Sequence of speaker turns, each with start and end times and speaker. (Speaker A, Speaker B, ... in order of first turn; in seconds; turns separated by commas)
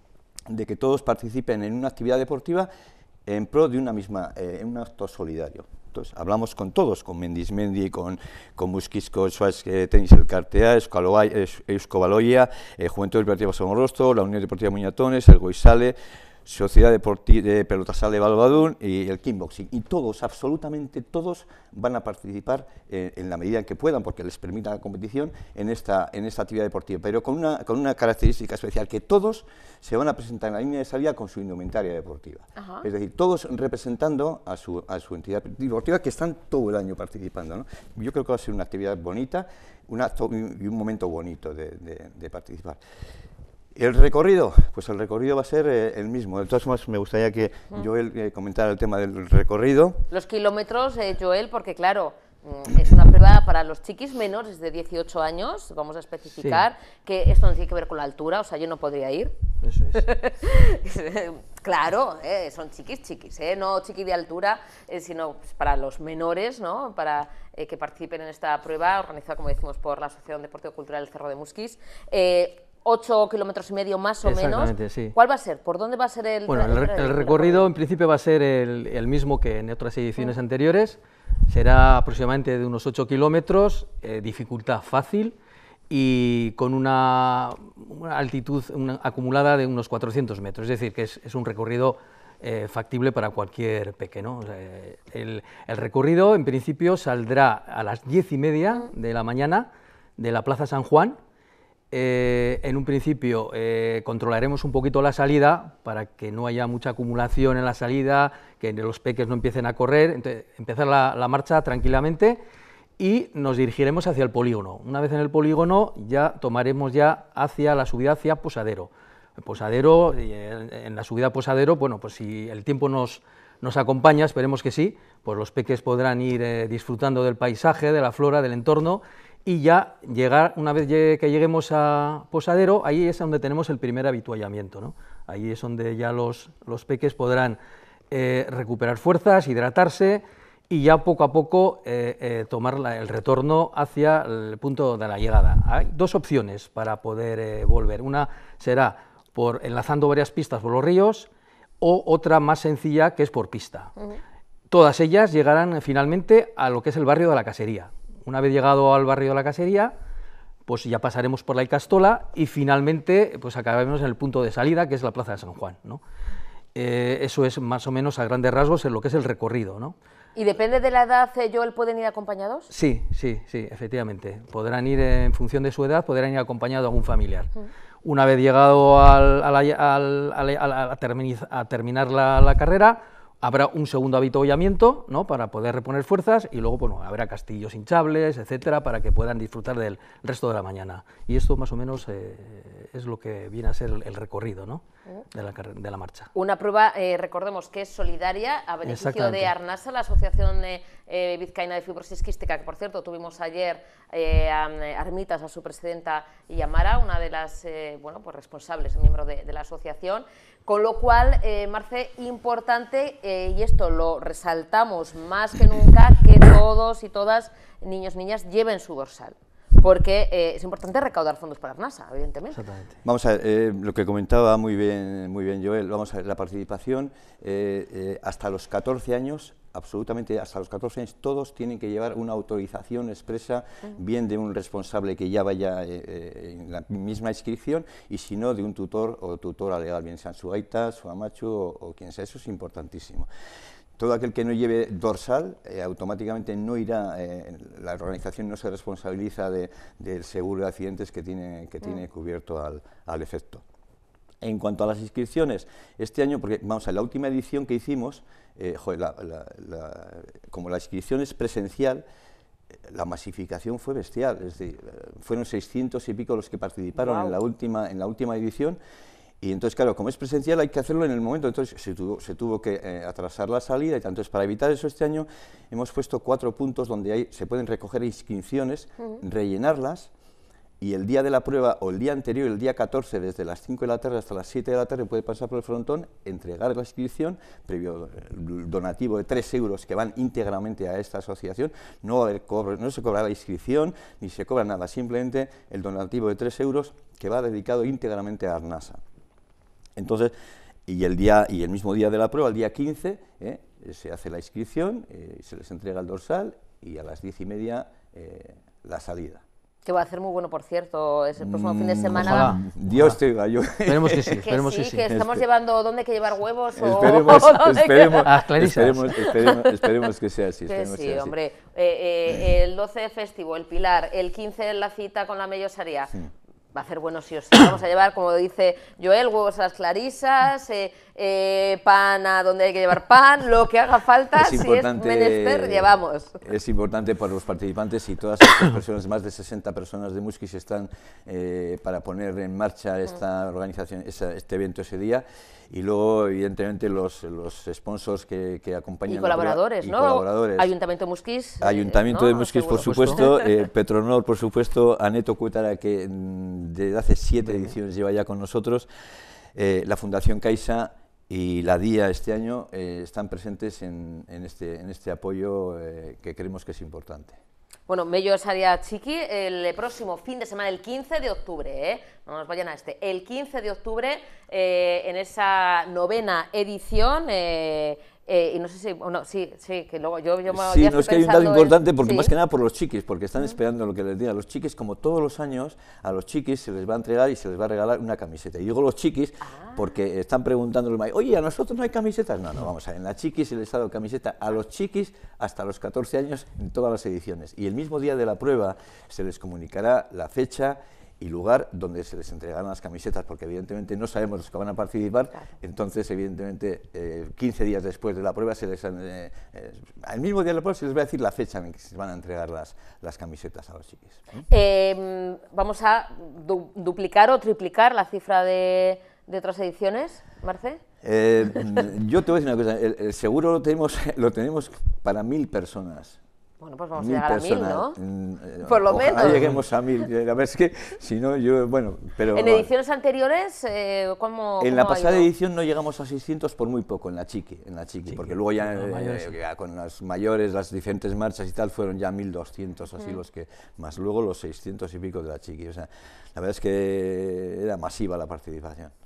Speaker A: 0.5-2.7, Speaker A: 3.2-42.8, Speaker B: 32.6-32.9, Speaker A: 43.7-50.0, Speaker B: 50.1-59.3, Speaker C: 56.4-56.6, Speaker C: 59.6-60.0, Speaker B: 59.9-77.7, Speaker C: 74.2-75.1, Speaker C: 76.5-85.3, Speaker C: 85.9-101.2, Speaker C: 101.9-112.4, Speaker C: 113.0-137.6, Speaker C: 138.1-151.3, Speaker C: 151.8-153.9, Speaker C: 154.7-159.9, Speaker C: 160.7-166.0, Speaker C: 166.7-169.9, Speaker B: 170.3-172.7, Speaker C: 172.7-177.5, Speaker C: 178.0-196.3, Speaker B: 196.3-222.6, Speaker C: 198.8-199.5, Speaker C: 222.5-222.9, Speaker A: 223.0-243.3, Speaker A: 244.0-253.6, Speaker A: 254.4-262.0, Speaker A: 262.9-268.8, Speaker B: 267.0-267.3, Speaker A: 269.4-280.1, Speaker A: 280.8-299.0, Speaker A: 299.9-300.3, Speaker A: 300.9-309.4, Speaker B: 309.8-312.6, Speaker A: 311.4-314.4, Speaker C: 312.2-313.2, Speaker C: 313.9-315.1, Speaker B: 314.4-318.3, Speaker A: 315.1-315.4, Speaker A: 316.8-321.3, Speaker C: 318.2-319.1, Speaker B: 319.3-319.6, Speaker B: 320.7-326.1, Speaker B: 326.7-336.4, Speaker A: 334.4-335.9, Speaker A: 336.4-350.7, Speaker B: 349.1-353.3, Speaker A: 351.6-358.9, Speaker C: 352.8-353.2, Speaker C: 357.4-357.7, Speaker A: 359.5-367.4, Speaker B: 367.9-382.3, Speaker A: 380.5-414.4, Speaker B: 389.4-389.8, Speaker B: 414.5-420.8, Speaker A: 421.0-426.2, Speaker B: 426.6-428.0, Speaker A: 427.0-432.7, Speaker B: 428.6-429.4, Speaker C: 429.2-429.6, Speaker B: 432.3-435.3, Speaker A: 434.6-448.9, Speaker C: 438.1-439.3